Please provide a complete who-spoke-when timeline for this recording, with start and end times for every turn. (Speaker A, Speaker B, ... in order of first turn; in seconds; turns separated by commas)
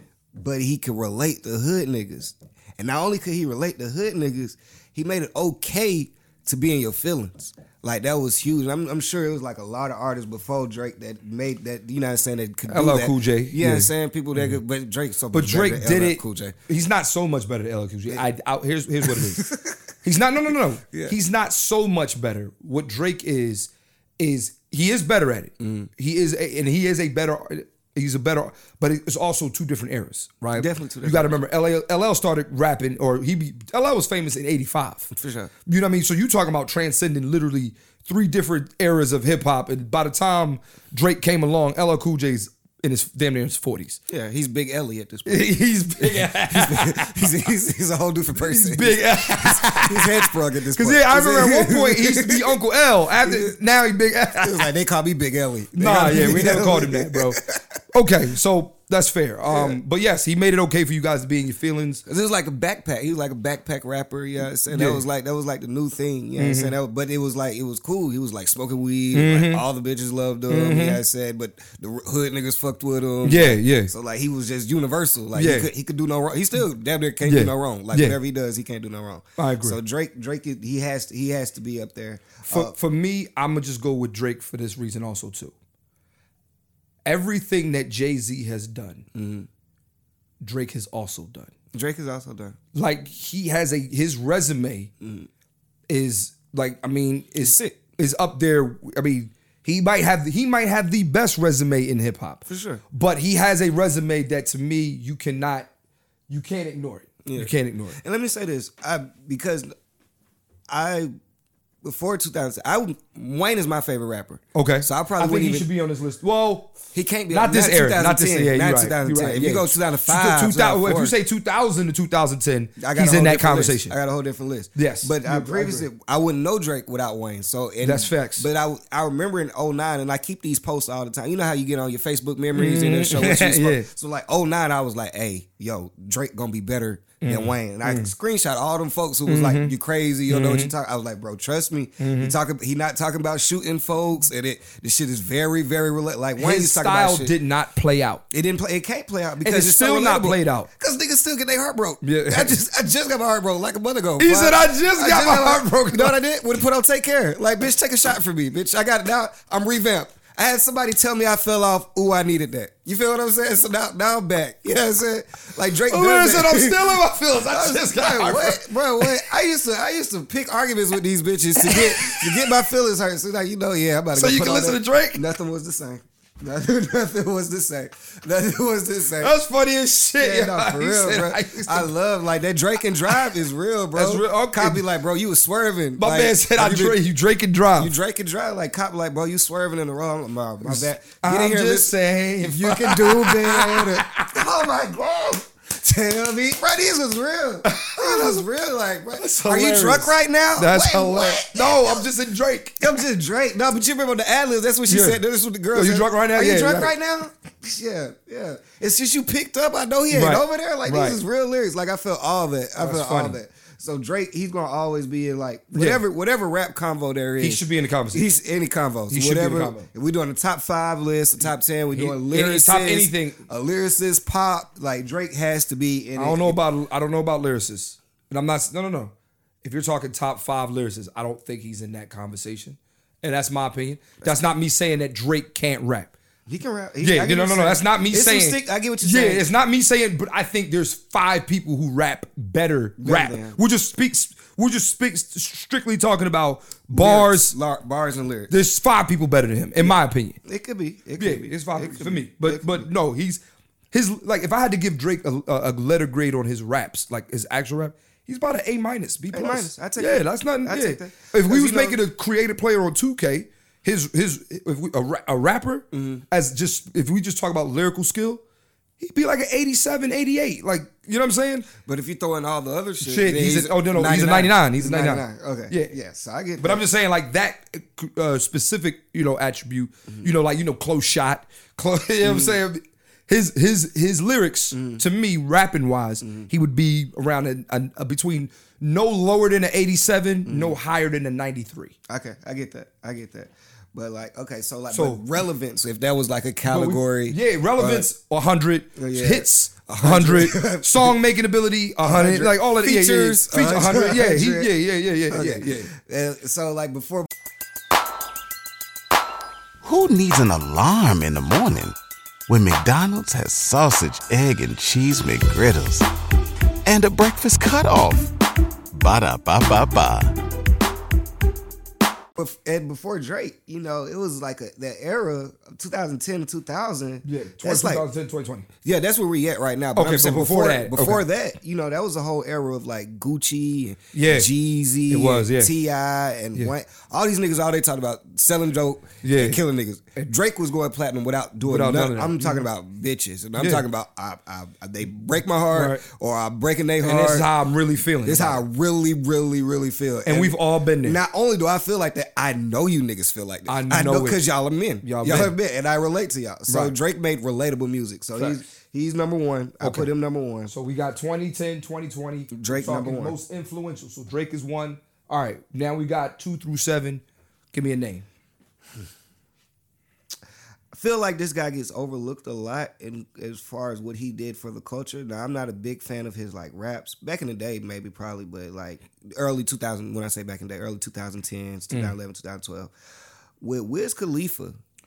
Speaker A: 0.3-16.6, Speaker B: 12.7-14.6, Speaker B: 15.3-19.4, Speaker A: 19.0-19.8, Speaker B: 20.0-35.1, Speaker A: 20.9-21.1, Speaker A: 25.6-25.9, Speaker A: 30.5-31.4, Speaker A: 35.1-35.5, Speaker B: 35.6-44.0, Speaker A: 44.1-52.6, Speaker B: 45.2-47.4, Speaker B: 48.4-54.7, Speaker A: 53.2-53.6, Speaker A: 54.4-57.6, Speaker B: 55.8-62.0, Speaker A: 59.5-59.8, Speaker A: 62.0-82.7, Speaker B: 64.7-65.0, Speaker B: 66.4-66.7, Speaker B: 69.1-69.6, Speaker B: 70.5-71.0, Speaker B: 73.2-73.9, Speaker B: 75.3-75.7, Speaker B: 77.2-78.2, Speaker B: 79.4-79.8, Speaker B: 82.5-85.5, Speaker B: 87.0-89.1, Speaker A: 89.1-89.5, Speaker B: 90.4-91.5, Speaker A: 91.7-92.6, Speaker B: 92.7-94.9, Speaker A: 95.0-95.3, Speaker B: 95.9-105.7, Speaker A: 97.4-97.8, Speaker A: 102.5-102.8, Speaker B: 106.3-108.0, Speaker A: 107.2-109.7, Speaker A: 110.7-111.1, Speaker A: 111.8-115.7, Speaker B: 114.5-123.9, Speaker A: 116.9-121.2, Speaker A: 122.8-147.3, Speaker B: 124.7-125.9, Speaker B: 127.8-128.5, Speaker B: 132.5-133.9, Speaker B: 137.2-138.1, Speaker B: 139.2-139.7, Speaker B: 140.3-140.7, Speaker B: 142.0-142.3, Speaker B: 146.4-148.2, Speaker A: 148.3-179.3, Speaker B: 149.4-150.7, Speaker B: 152.0-152.6, Speaker B: 154.2-156.2, Speaker B: 165.9-169.2, Speaker B: 171.6-172.5, Speaker B: 174.1-175.2, Speaker B: 179.2-181.9, Speaker A: 180.2-187.0, Speaker B: 183.1-183.4, Speaker B: 183.9-184.8, Speaker B: 186.0-187.9, Speaker A: 187.8-202.1, Speaker B: 190.6-194.4, Speaker B: 197.6-198.4, Speaker B: 199.2-202.8, Speaker A: 202.8-226.6, Speaker B: 204.9-205.2, Speaker B: 205.7-206.9, Speaker B: 210.1-211.2, Speaker B: 212.8-213.4, Speaker B: 215.7-216.0, Speaker B: 217.4-218.2, Speaker B: 219.1-219.9, Speaker B: 221.9-223.4, Speaker B: 226.2-236.1, Speaker A: 236.5-239.5, Speaker B: 237.0-247.5, Speaker A: 243.0-243.6, Speaker A: 246.9-248.5, Speaker B: 248.5-250.4, Speaker A: 249.8-252.9, Speaker B: 251.2-253.4, Speaker B: 253.9-268.4, Speaker A: 259.3-262.0, Speaker A: 265.9-266.2, Speaker B: 269.0-271.7, Speaker A: 271.8-276.8, Speaker B: 273.0-275.9, Speaker B: 276.6-291.9, Speaker A: 282.2-282.6, Speaker A: 284.7-285.0, Speaker A: 286.2-286.5, Speaker A: 290.4-290.8, Speaker A: 292.1-298.1, Speaker B: 294.9-295.2, Speaker B: 296.6-305.9, Speaker A: 299.0-301.2, Speaker A: 302.0-307.3, Speaker C: 309.8-311.9, Speaker C: 312.5-316.1, Speaker C: 316.9-318.3, Speaker C: 318.9-320.3, Speaker A: 322.4-328.0, Speaker B: 327.2-328.7, Speaker A: 328.8-347.5, Speaker B: 329.9-331.2, Speaker B: 334.1-334.5, Speaker B: 335.1-335.7, Speaker B: 339.2-339.6, Speaker B: 341.6-342.6, Speaker B: 343.6-343.8, Speaker B: 345.7-346.0, Speaker B: 347.0-348.6, Speaker A: 348.2-360.7, Speaker B: 350.2-351.2, Speaker B: 353.7-354.4, Speaker B: 355.0-355.5, Speaker B: 356.7-356.9, Speaker B: 358.4-358.6, Speaker B: 359.8-360.1, Speaker B: 360.7-368.2, Speaker A: 362.5-363.4, Speaker A: 370.9-382.9, Speaker A: 383.6-384.8